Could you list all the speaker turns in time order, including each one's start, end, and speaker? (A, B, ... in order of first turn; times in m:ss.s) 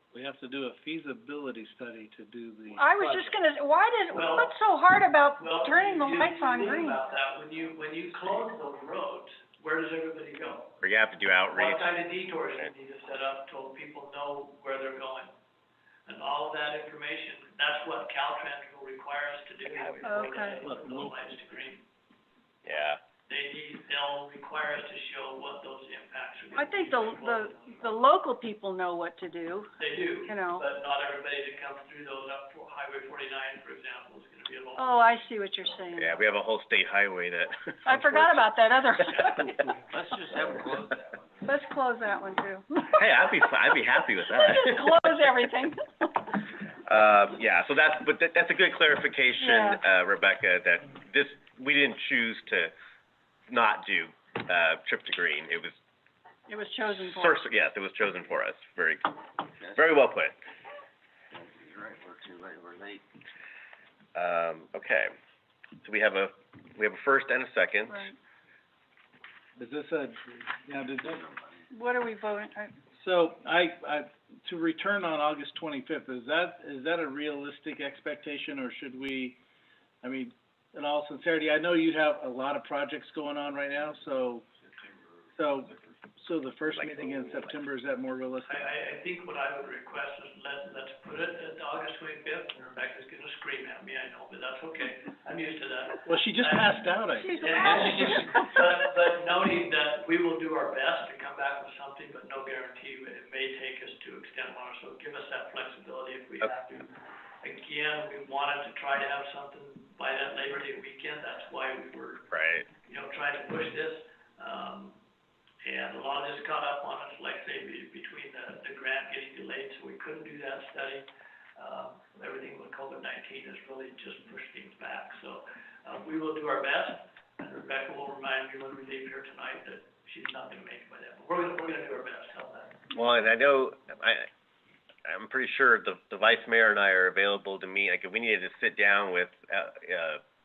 0:00.1-0:03.4 A
0:02.8-0:07.0 B
0:04.1-0:04.5 C
0:05.4-0:10.8 C
0:10.8-0:12.0 D
0:11.5-0:15.3 C
0:16.1-0:21.8 C
0:19.7-0:20.3 D
0:20.0-0:20.6 B
0:20.6-0:21.4 A
0:22.6-0:23.0 D
0:23.3-0:28.0 C
0:26.6-0:29.7 B
0:29.8-0:35.3 C
0:30.2-0:30.6 B
0:34.8-0:36.2 B
0:36.0-0:38.5 D
0:37.8-0:39.4 B
0:39.0-0:39.4 C
0:39.2-0:41.6 E
0:41.4-0:43.0 B
0:42.9-0:45.3 D
0:44.3-0:46.3 B
0:46.9-0:52.7 D
0:49.4-0:49.8 B
0:53.5-0:55.8 D
0:56.5-0:57.4 B
0:57.1-0:59.1 D
0:59.6-0:59.8 E
0:59.7-1:00.3 D
1:01.3-1:03.0 E
1:04.2-1:05.1 D
1:05.8-1:08.1 D
1:07.9-1:08.2 B
1:09.6-1:11.2 A
1:11.0-1:11.6 E
1:11.7-1:12.7 B
1:12.9-1:19.4 A
1:20.0-1:24.5 A
1:25.3-1:28.6 A
1:26.8-1:27.5 D
1:28.5-1:46.9 C
1:36.1-1:37.4 A
1:37.2-1:38.6 B
1:47.4-1:52.3 C
1:52.3-1:52.7 D
1:52.8-1:55.0 C
1:55.6-2:01.1 C
2:01.6-2:12.8 C
2:12.9-2:14.3 D
2:15.1-2:20.2 D